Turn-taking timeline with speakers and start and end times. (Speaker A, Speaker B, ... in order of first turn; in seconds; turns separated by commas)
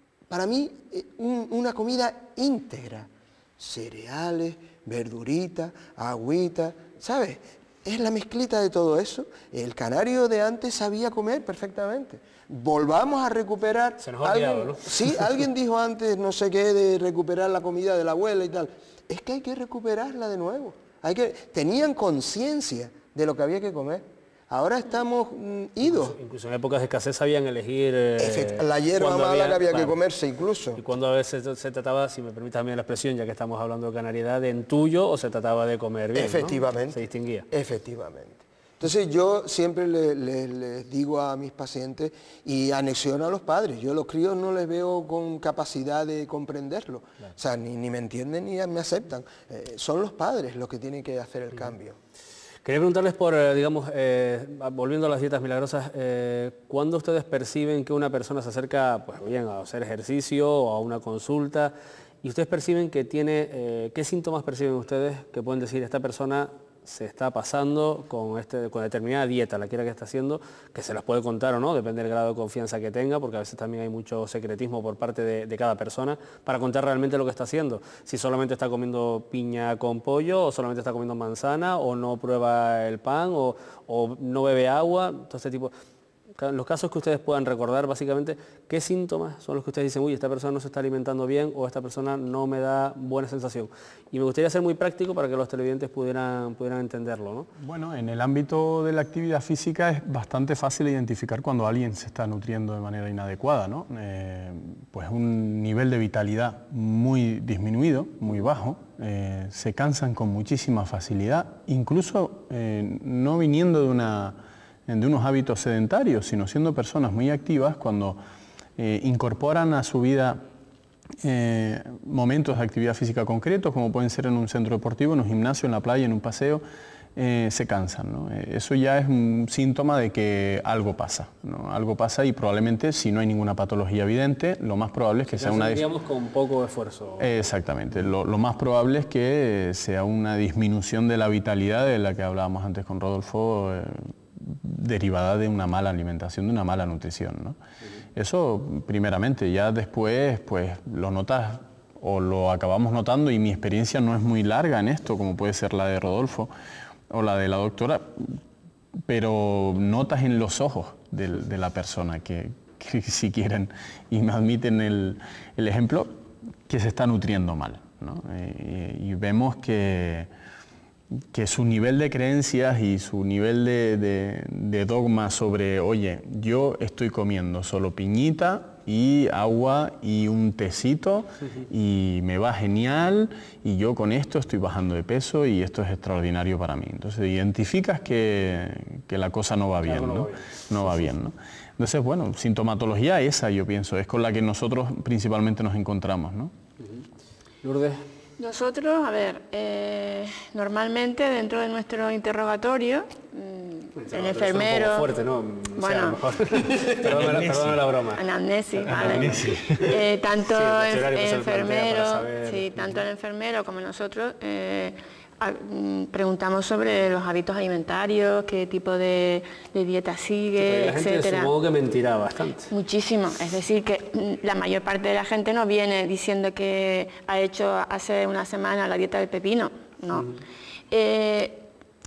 Speaker A: 0.3-26.2, Speaker B: 14.0-15.2, Speaker B: 25.9-29.9, Speaker A: 28.2-30.8, Speaker B: 30.8-37.5, Speaker A: 36.1-37.0, Speaker A: 37.5-52.0, Speaker B: 52.6-85.7, Speaker B: 86.4-97.5, Speaker C: 97.6-118.2, Speaker C: 118.8-120.4, Speaker C: 121.2-126.6, Speaker C: 127.2-135.8, Speaker B: 135.3-137.4, Speaker C: 137.2-147.6, Speaker C: 148.2-156.5, Speaker C: 157.1-158.4, Speaker C: 159.1-166.1, Speaker C: 166.7-170.3, Speaker C: 171.3-196.5, Speaker B: 189.8-191.1, Speaker B: 197.6-198.0, Speaker D: 198.4-205.1, Speaker B: 204.0-208.2, Speaker D: 205.8-206.2, Speaker C: 206.8-207.8, Speaker D: 208.1-221.5, Speaker B: 208.9-209.9, Speaker C: 208.9-210.0, Speaker B: 210.5-213.0, Speaker B: 220.6-222.7, Speaker D: 222.7-230.3, Speaker D: 230.9-231.7